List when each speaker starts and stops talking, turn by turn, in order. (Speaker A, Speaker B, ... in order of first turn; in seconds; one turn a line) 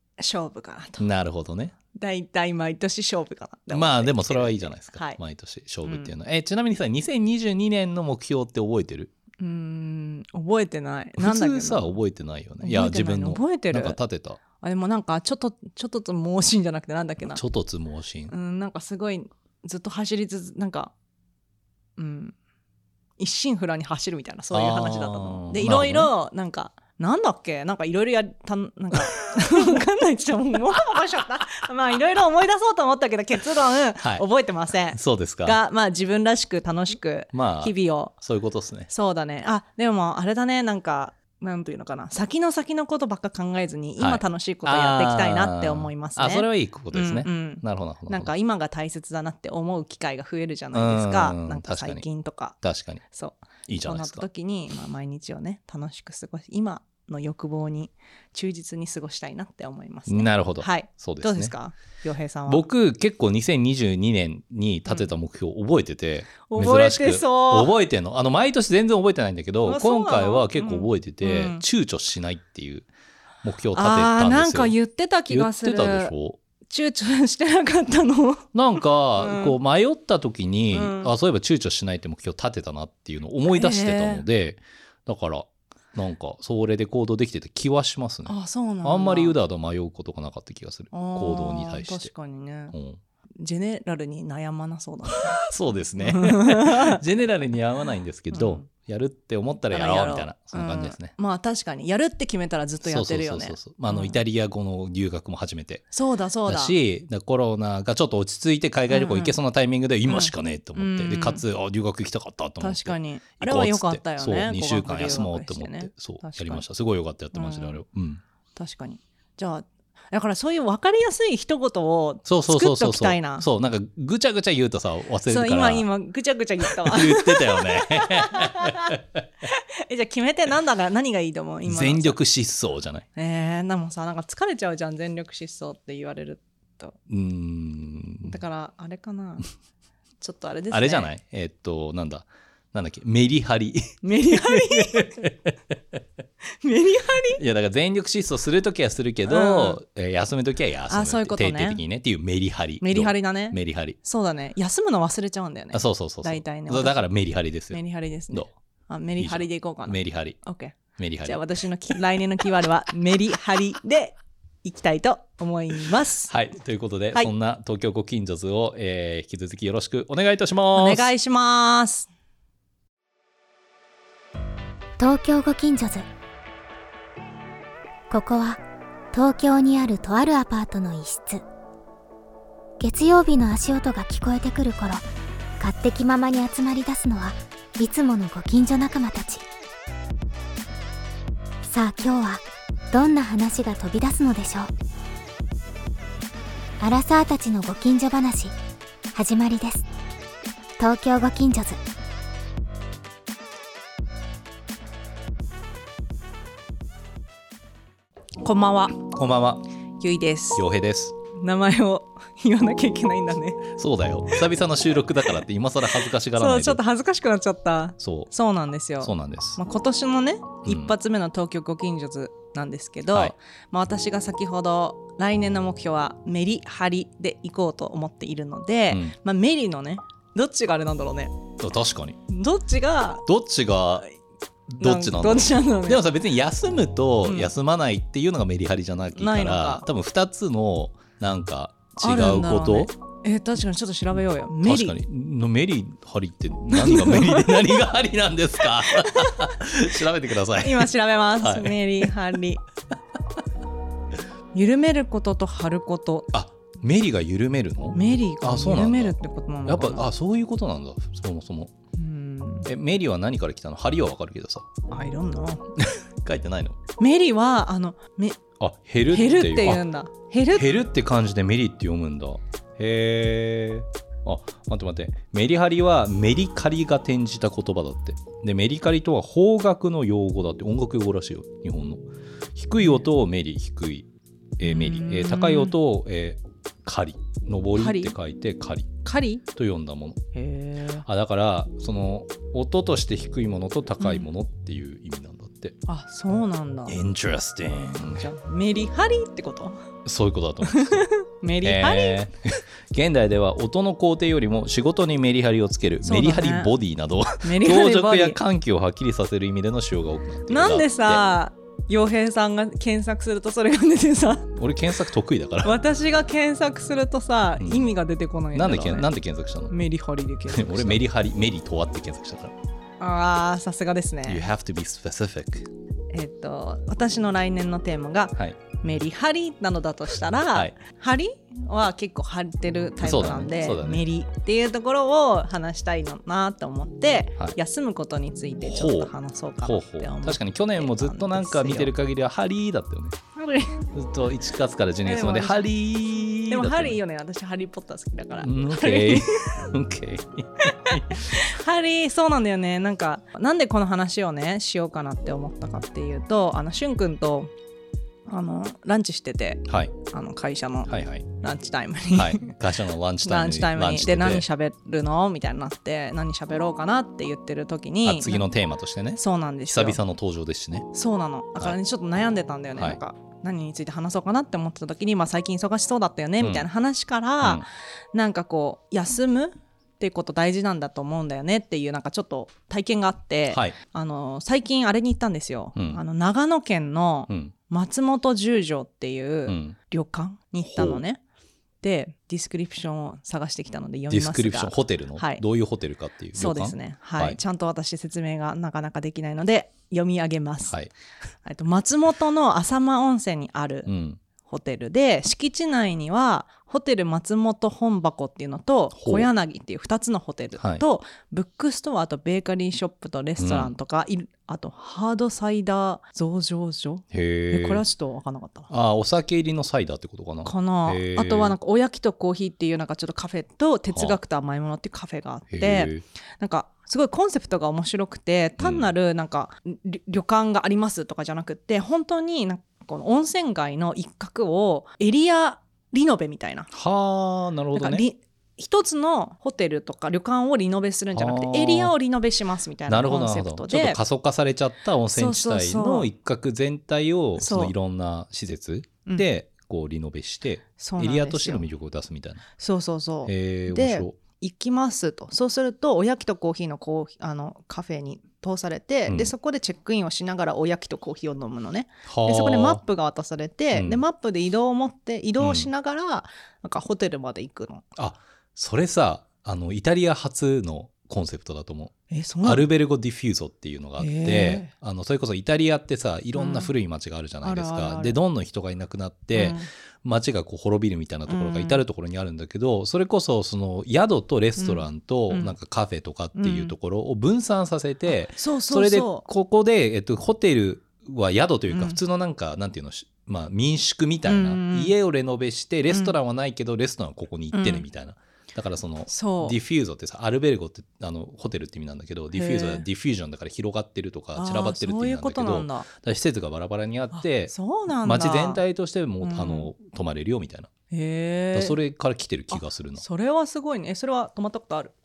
Speaker A: 0.2-1.1
Speaker B: 1.0-1.8
Speaker A: 1.9-5.2
Speaker B: 3.7-9.1
Speaker A: 5.8-6.1
Speaker A: 9.4-11.9
Speaker B: 11.2-14.4
Speaker A: 12.6-14.0
Speaker A: 14.6-17.4
Speaker B: 17.2-18.3
Speaker A: 18.3-20.9
Speaker A: 22.0-22.4
Speaker A: 23.2-38.1
Speaker B: 24.5-26.1
Speaker B: 34.0-34.3
Speaker B: 34.9-35.6
Speaker B: 37.3-38.9
Speaker A: 38.9-52.6
Speaker B: 44.0-48.3
Speaker B: 50.7-52.0
Speaker B: 52.6-53.0
Speaker A: 53.1-62.6
Speaker B: 53.7-54.2
Speaker B: 60.1-61.5
Speaker B: 62.5-72.9
Speaker A: 66.5-67.7
Speaker A: 69.7-71.6
Speaker B: 73.4-74.8
Speaker A: 73.7-76.1
Speaker B: 75.3-76.4
Speaker A: 76.7-79.5
Speaker B: 78.5-92.1
Speaker A: 80.7-81.1
Speaker A: 83.5-84.2
Speaker A: 88.3-89.4
Speaker A: 90.9-92.8
Speaker B: 92.7-93.0
Speaker A: 93.4-95.4
Speaker B: 95.2-101.1
Speaker A: 96.0-97.0
Speaker A: 98.3-98.7
Speaker A: 99.7-104.2
Speaker B: 102.8-105.8
Speaker A: 105.9-106.8
Speaker B: 106.5-118.2
Speaker A: 108.9-109.4
Speaker A: 110.1-111.4
Speaker A: 112.6-116.6
Speaker A: 117.3-117.8
Speaker A: 118.6-123.5
Speaker B: 122.3-125.9
Speaker A: 125.3-132.2
Speaker B: 126.6-129.2
Speaker B: 131.7-133.1
Speaker A: 133.2-137.0
Speaker B: 137.1-138.4
Speaker A: 138.2-139.5
Speaker A: 140.2-141.1
Speaker B: 140.7-146.0
Speaker A: 144.0-145.2
Speaker A: 146.6-147.4
Speaker B: 147.3-154.0
Speaker A: 149.2-149.8
Speaker A: 150.9-151.8
Speaker A: 152.8-157.1
Speaker B: 155.7-157.8
Speaker A: 157.7-166.3
Speaker B: 159.2-160.4
Speaker B: 161.0-161.4
Speaker B: 166.3-171.1
Speaker A: 170.7-172.1
Speaker C: 175.0-176.1
Speaker C: 178.1-178.6
Speaker C: 179.1-181.4
Speaker C: 182.8-185.1
Speaker C: 185.6-189.4
Speaker C: 191.7-194.7
Speaker C: 196.8-198.5
Speaker C: 199.1-199.9
Speaker C: 200.8-201.8
Speaker A: 208.4-209.1
Speaker B: 209.0-209.7
Speaker A: 210.0-210.6
Speaker B: 210.6-211.1
Speaker A: 211.3-213.7
Speaker B: 213.7-216.8
Speaker A: 216.3-231.3
Speaker B: 218.0-218.3
Speaker B: 219.0-219.6
Speaker B: 220.7-220.9
Speaker B: 228.9-229.2
Speaker B: 231.6-232.2
Speaker A: 232.3-233.2
Speaker B: 233.3-234.1
Speaker B: 234.8-242.9
Speaker A: 234.8-236.0
Speaker A: 237.2-237.5
Speaker A: 239.2-239.8
Speaker A: 242.0-245.0
Speaker B: 244.6-252.1
Speaker A: 246.7-247.9
Speaker A: 248.8-249.6
Speaker A: 250.6-252.6
Speaker A: 254.5-256.3
Speaker B: 256.3-261.7
Speaker A: 257.9-260.1
Speaker A: 262.0-262.7
Speaker B: 262.7-264.7
Speaker A: 264.9-265.6
Speaker B: 265.8-266.8
Speaker A: 267.0-268.4
Speaker B: 268.6-269.9
Speaker A: 269.1-270.7
Speaker B: 270.5-289.0
Speaker A: 284.6-285.8
Speaker A: 287.8-288.1
Speaker A: 289.0-289.4
Speaker B: 289.5-290.2
Speaker A: 290.4-291.1
Speaker B: 291.0-295.8
Speaker A: 294.0-294.3
Speaker A: 295.9-297.0
Speaker B: 296.9-298.3
Speaker A: 298.1-299.9
Speaker B: 300.1-301.1
Speaker A: 300.7-302.2
Speaker B: 301.6-311.2
Speaker A: 306.0-306.7
Speaker A: 307.4-308.4
Speaker A: 310.5-314.5
Speaker B: 314.6-315.8
Speaker A: 315.6-319.1
Speaker B: 317.6-317.9
Speaker B: 318.5-319.7
Speaker A: 319.7-321.0
Speaker B: 320.5-322.6
Speaker A: 323.0-324.5
Speaker B: 324.3-325.7
Speaker A: 326.1-341.9
Speaker B: 333.0-334.0
Speaker B: 338.7-343.2
Speaker A: 343.4-343.9
Speaker B: 343.9-347.0
Speaker A: 345.0-345.7
Speaker A: 346.5-349.7
Speaker B: 348.4-351.4
Speaker A: 350.6-357.5
Speaker A: 358.3-362.6
Speaker B: 359.7-359.9
Speaker B: 360.9-361.3
Speaker B: 362.1-364.5
Speaker A: 363.2-368.4
Speaker B: 368.1-370.9
Speaker A: 369.2-370.0
Speaker A: 370.9-391.2
Speaker B: 376.4-376.7
Speaker B: 383.5-383.8
Speaker B: 385.8-386.0
Speaker B: 389.5-389.8
Speaker B: 390.7-391.0
Speaker A: 391.8-395.4
Speaker B: 394.1-397.4
Speaker A: 396.3-400.8
Speaker A: 401.4-403.9
Speaker B: 403.9-404.2
Speaker A: 404.4-418.7
Speaker B: 408.9-409.3
Speaker B: 413.4-413.7
Speaker B: 417.1-417.8
Speaker B: 418.7-421.6
Speaker A: 420.4-436.7
Speaker B: 423.9-424.2
Speaker B: 425.5-426.0
Speaker B: 428.6-428.9
Speaker B: 436.7-438.1
Speaker A: 437.7-444.0
Speaker B: 441.1-441.9
Speaker B: 442.9-452.4
Speaker A: 445.1-446.1
Speaker A: 447.4-447.7
Speaker A: 450.8-451.7
Speaker A: 452.6-467.9
Speaker B: 453.3-454.2
Speaker B: 459.1-459.3
Speaker B: 462.1-462.8
Speaker B: 463.7-464.0
Speaker B: 465.4-465.7
Speaker B: 468.0-510.7
Speaker A: 472.1-472.7
Speaker A: 474.0-474.7
Speaker A: 476.4-476.7
Speaker A: 477.4-478.2
Speaker A: 479.3-479.7
Speaker A: 481.3-481.8
Speaker A: 484.6-485.6
Speaker A: 486.4-486.8
Speaker A: 488.3-489.3
Speaker A: 491.7-492.0
Speaker A: 494.3-494.9
Speaker A: 497.5-497.9
Speaker A: 499.1-499.6
Speaker A: 502.3-502.9
Speaker A: 504.4-505.9
Speaker A: 507.1-508.6
Speaker A: 509.2-509.7
Speaker A: 510.9-511.8
Speaker B: 511.5-513.0
Speaker A: 512.5-514.9